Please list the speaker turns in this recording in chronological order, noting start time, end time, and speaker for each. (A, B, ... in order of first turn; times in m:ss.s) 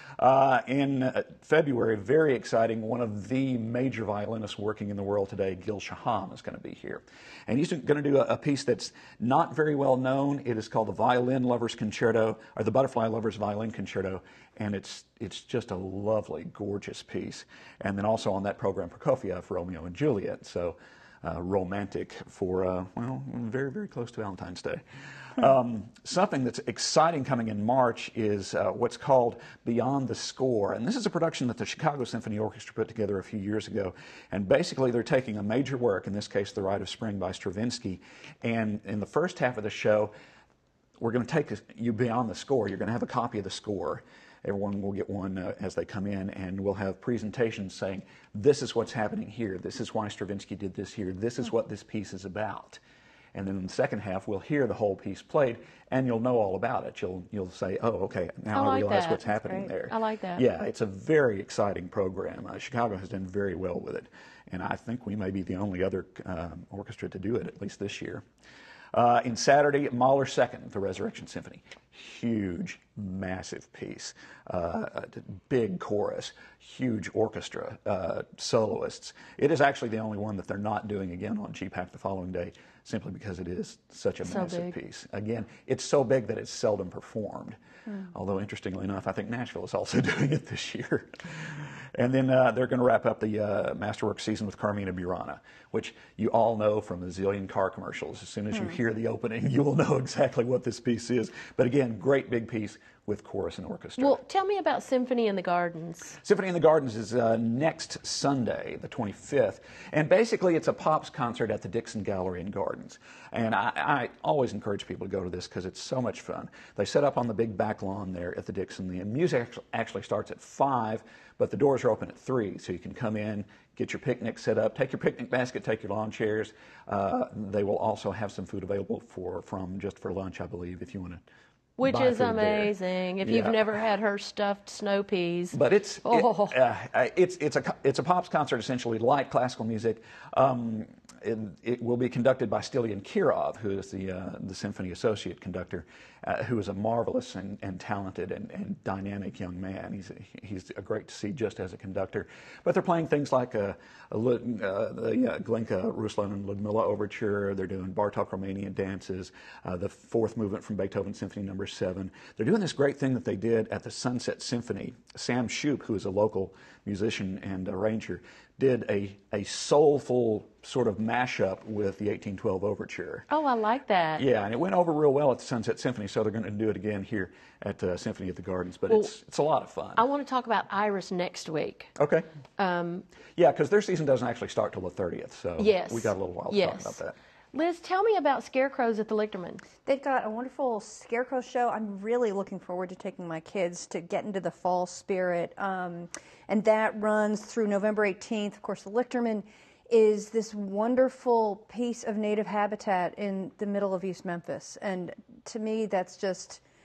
0:00.2-0:40.1 A
0:41.0-0:52.8 A
0:53.3-1:08.2 A
0:58.5-1:00.4 B
1:08.9-1:44.2 A
1:24.2-1:24.7 B
1:44.0-1:46.2 B
1:46.2-2:11.2 A
2:11.8-2:16.5 B
2:11.8-2:13.7 A
2:15.5-2:53.2 A
2:53.3-2:54.2 B
2:54.2-3:00.0 A
3:00.0-3:01.9 B
3:02.0-3:02.2 A
3:02.6-3:03.0 B
3:03.4-3:07.1 A
3:05.6-3:07.0 B
3:07.5-3:09.6 B
3:09.8-3:26.6 C